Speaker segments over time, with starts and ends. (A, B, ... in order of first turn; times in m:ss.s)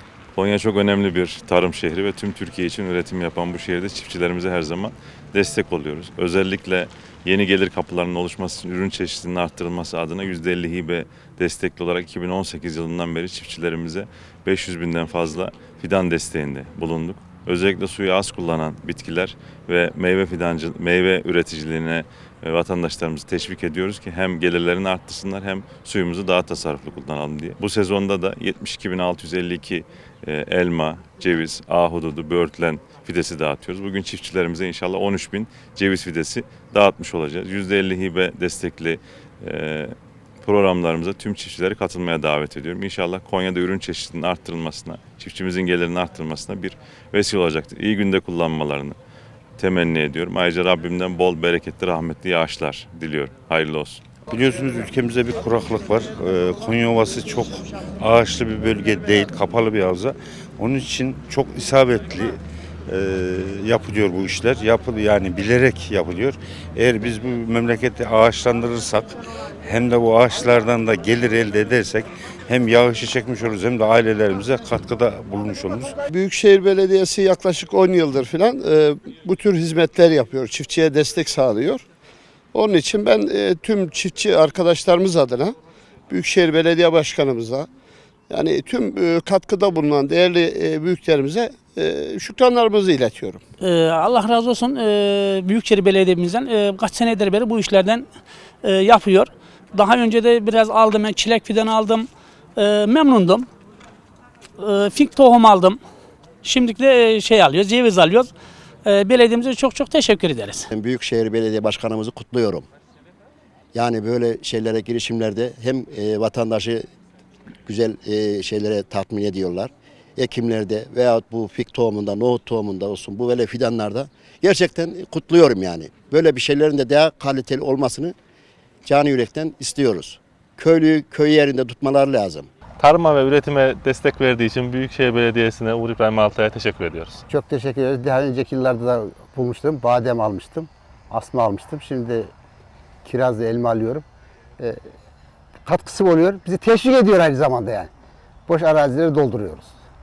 0:00.4-0:49.0 A
0:49.6-0:54.0 A
0:54.3-1:16.0 B
1:16.1-1:21.8 C
1:22.5-1:25.6 C
1:26.1-1:27.7 C
1:28.3-1:33.4 C
1:33.6-1:38.1 D
1:38.6-1:43.5 D
1:44.6-1:45.8 D
1:46.4-1:48.3 D
1:48.8-1:50.7 D
1:50.7-1:52.7 E
1:53.7-1:56.9 E
1:57.7-2:08.2 E
2:08.8-2:12.5 E
2:12.8-2:17.2 F
2:17.3-2:22.3 G
2:23.0-2:24.0 G
2:25.6-2:27.9 G
2:28.5-2:29.8 G